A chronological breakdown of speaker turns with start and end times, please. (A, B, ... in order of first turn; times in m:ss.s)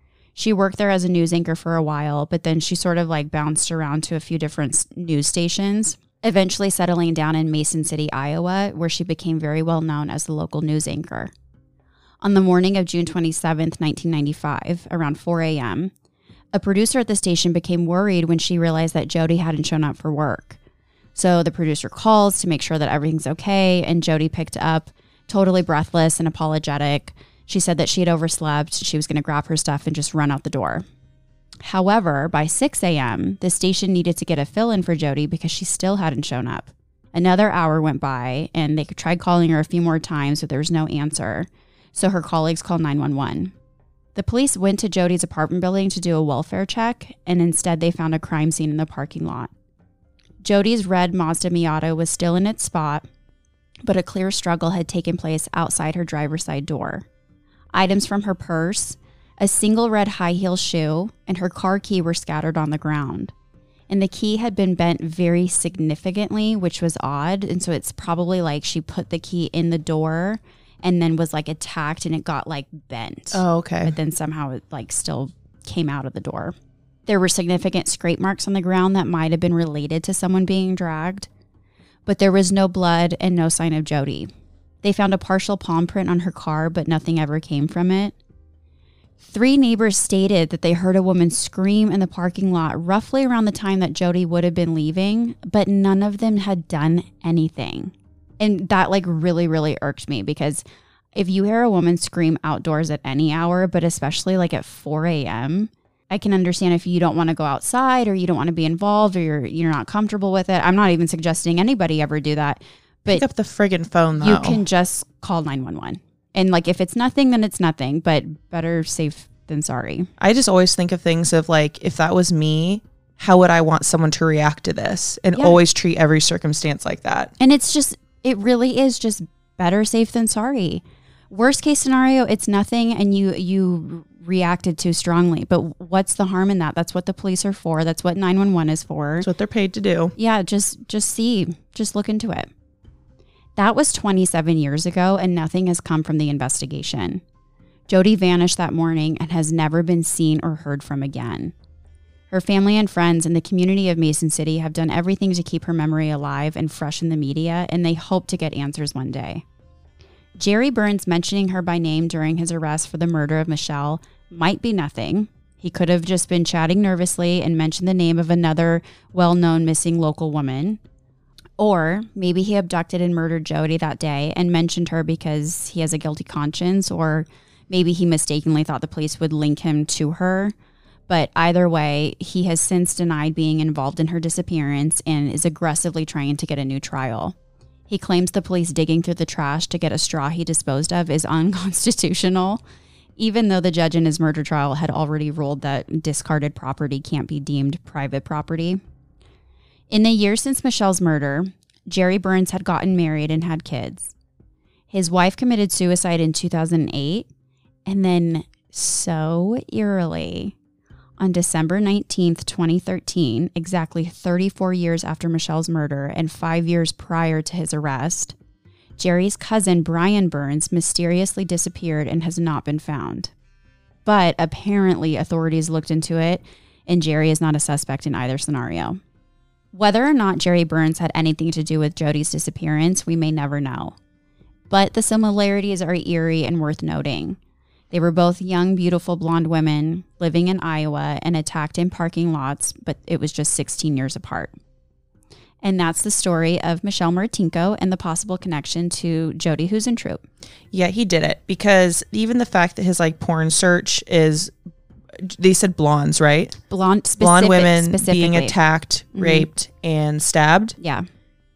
0:00.4-0:11.3 A
0:12.2-0:15.9 A
0:16.5-0:20.6 A
0:21.2-0:30.8 A
0:31.6-0:43.5 A
0:44.2-0:49.5 A
0:50.4-0:53.0 A
0:53.8-0:57.0 A
0:57.7-1:03.3 A
1:03.9-1:16.5 A
1:13.3-1:14.0 B
1:17.1-1:21.3 A
1:22.1-1:24.3 A
1:24.8-1:28.2 A
1:29.2-1:40.6 A
1:41.2-1:53.2 A
1:53.1-1:54.6 B
1:54.2-2:00.1 A
2:00.2-2:07.3 B
2:07.4-2:19.3 A
2:19.2-2:20.1 B
2:20.2-2:22.5 A
2:23.6-2:27.2 A
2:27.9-2:31.5 A
2:32.3-2:39.4 A
2:40.4-2:50.8 A
2:51.6-3:00.5 A
3:01.1-3:07.4 A
3:07.9-3:12.6 A
3:13.2-3:18.8 A
3:19.9-3:24.1 A
3:24.9-3:27.3 A
3:27.9-3:30.6 A
3:31.2-3:38.4 A
3:39.0-3:43.3 A
3:44.0-3:49.0 A
3:49.7-3:54.0 A
3:54.7-3:57.4 A
3:57.9-4:04.5 A
4:05.6-4:10.2 A
4:10.7-4:14.5 B
4:15.2-4:16.6 B
4:16.7-4:18.6 A
4:17.2-4:20.8 B
4:19.1-4:19.5 A
4:20.8-4:21.0 A